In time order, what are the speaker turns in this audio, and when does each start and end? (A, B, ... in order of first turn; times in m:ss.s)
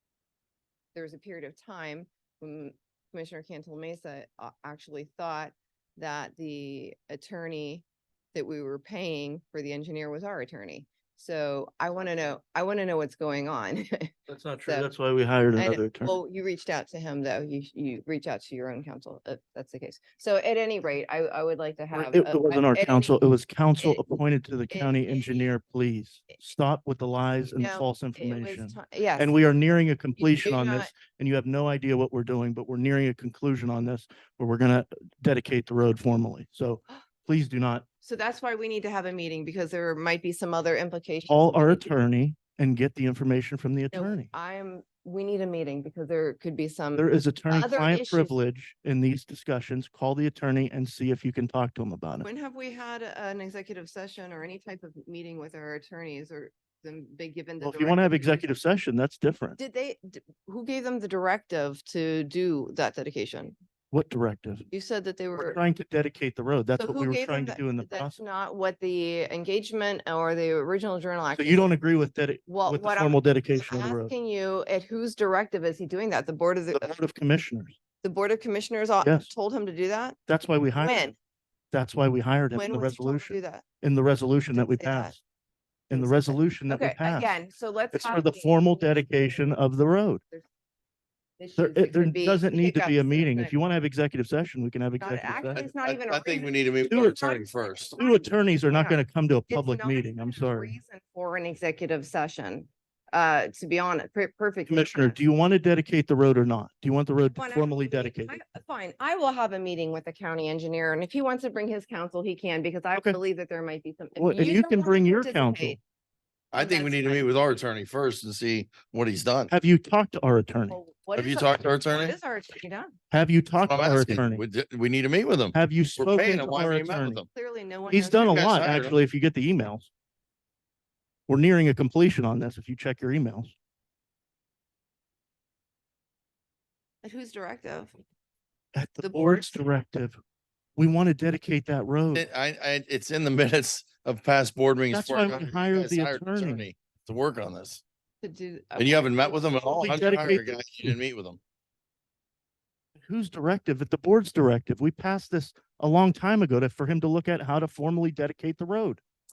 0:00.9-0:14.9 A
0:14.3-0:16.2 B
0:15.6-0:23.1 A
0:21.9-0:37.8 B
0:24.7-0:25.5 A
0:27.6-0:29.3 A
0:30.2-0:30.9 A
0:38.0-0:41.8 A
0:41.3-0:44.3 B
0:43.9-0:48.3 A
0:47.0-0:52.2 B
0:52.2-0:58.5 A
0:57.6-0:59.6 B
0:59.6-1:03.5 A
1:03.9-1:04.7 B
1:04.7-1:05.6 A
1:05.4-1:08.2 B
1:06.8-1:11.7 A
1:11.3-1:14.1 B
1:12.5-1:17.0 A
1:16.7-1:17.8 B
1:18.0-1:20.2 A
1:19.0-1:19.3 B
1:20.3-1:21.1 B
1:20.8-1:21.1 A
1:21.7-1:25.2 B
1:22.5-1:23.6 A
1:24.5-1:25.2 A
1:25.9-1:27.3 B
1:25.9-1:29.5 A
1:27.9-1:30.2 B
1:31.4-1:33.6 A
1:31.6-1:35.6 B
1:35.0-1:39.0 A
1:35.5-1:38.0 C
1:36.9-1:37.4 B
1:38.0-1:40.7 B
1:39.5-1:45.2 A
1:44.7-1:48.4 B
1:47.3-1:55.8 A
1:54.2-1:55.8 B
1:56.5-1:59.5 C
1:56.5-1:57.3 A
1:59.5-2:00.8 B
2:00.7-2:03.0 A
2:01.1-2:02.2 C
2:03.1-2:04.4 B
2:03.6-2:07.2 C
2:05.5-2:07.2 B
2:07.3-2:08.4 A
2:07.9-2:09.9 B
2:08.2-2:09.0 C
2:11.3-2:13.5 B
2:17.0-2:17.9 A
2:18.8-2:20.2 B
2:19.0-2:19.5 A
2:20.8-2:22.2 B
2:22.1-2:27.8 C
2:24.9-2:26.6 B
2:28.2-2:30.0 A
2:28.8-2:31.4 C
2:29.7-2:30.9 B
2:33.0-2:39.0 B